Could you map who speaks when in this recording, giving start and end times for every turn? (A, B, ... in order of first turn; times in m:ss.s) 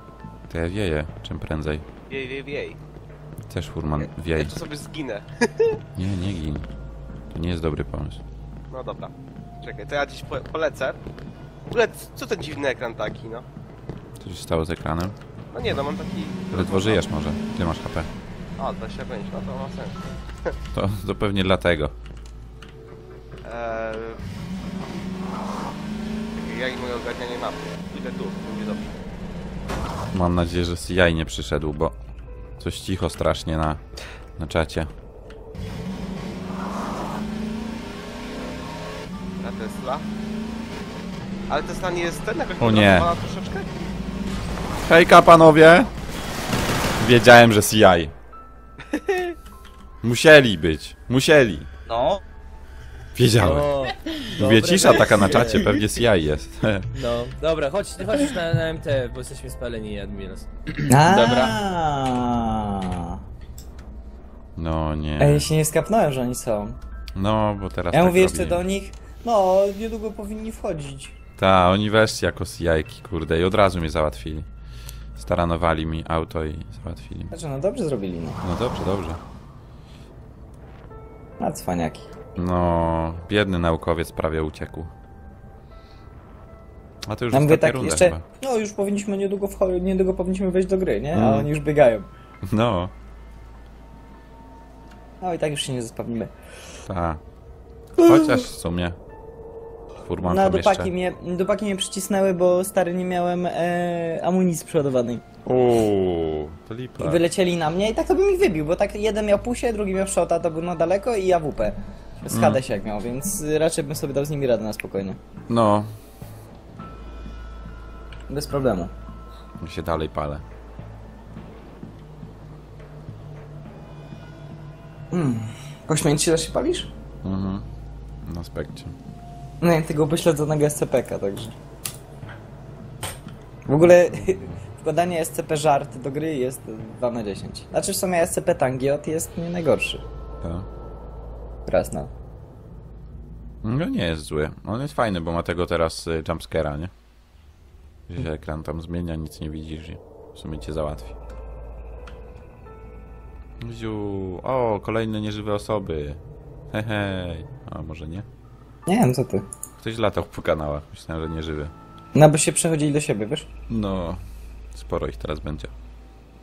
0:00.5-0:01.8 A
0:02.1-0:02.8 B
0:03.5-0:04.6 A
0:04.4-0:05.8 B
0:06.0-0:06.7 A
0:07.3-0:08.2 A
0:08.7-0:11.0 B
0:11.7-0:13.4 B
0:14.2-0:15.2 A
0:15.5-0:17.0 B
0:16.5-0:18.1 A
0:18.6-0:20.5 B
0:20.7-0:21.9 A
0:23.4-0:24.2 B
0:26.3-0:28.9 B
0:30.1-0:31.9 A
0:32.6-0:33.8 A
0:34.4-0:34.9 A
0:39.4-0:40.0 B
0:41.5-0:43.7 B
0:42.6-0:43.1 A
0:44.8-0:45.9 A
0:47.0-0:48.1 A
0:48.9-0:49.3 B
0:50.0-0:51.7 A
0:53.2-0:53.7 A
0:53.4-0:55.8 C
0:54.4-0:56.9 A
0:56.9-1:00.5 C
1:00.9-1:03.2 D
1:01.1-1:01.6 C
1:04.6-1:05.4 A
1:05.2-1:06.8 D
1:07.1-1:08.6 A
1:07.9-1:11.1 D
1:11.4-1:14.4 A
1:15.2-1:17.3 A
1:17.3-1:18.4 D
1:18.4-1:19.2 A
1:21.4-1:22.1 D
1:22.4-1:24.9 A
1:27.0-1:28.2 A
1:27.3-1:32.1 D
1:31.1-1:31.5 A
1:32.4-1:32.9 A
1:35.2-1:36.3 D
1:36.9-1:37.2 A
1:38.0-1:39.0 A
1:40.0-1:40.9 A
1:40.2-1:45.2 D
1:45.4-1:47.2 A
1:47.0-1:55.2 D
1:52.3-1:52.6 A
1:55.5-1:55.9 A
1:58.3-1:58.9 D
1:59.6-2:00.4 A
2:05.1-2:06.9 D
2:07.2-2:07.7 A
2:08.2-2:08.9 A
2:09.6-2:11.5 D
2:13.7-2:20.0 D
2:14.2-2:14.5 A
2:20.4-2:20.7 A
2:21.6-2:22.1 D
2:23.6-2:26.9 A
2:28.1-2:31.1 A
2:33.6-2:36.2 A
2:36.7-2:38.2 A
2:38.9-2:39.4 D
2:39.8-2:41.7 A
2:42.1-2:43.5 D
2:43.7-2:44.2 A
2:44.7-2:45.7 A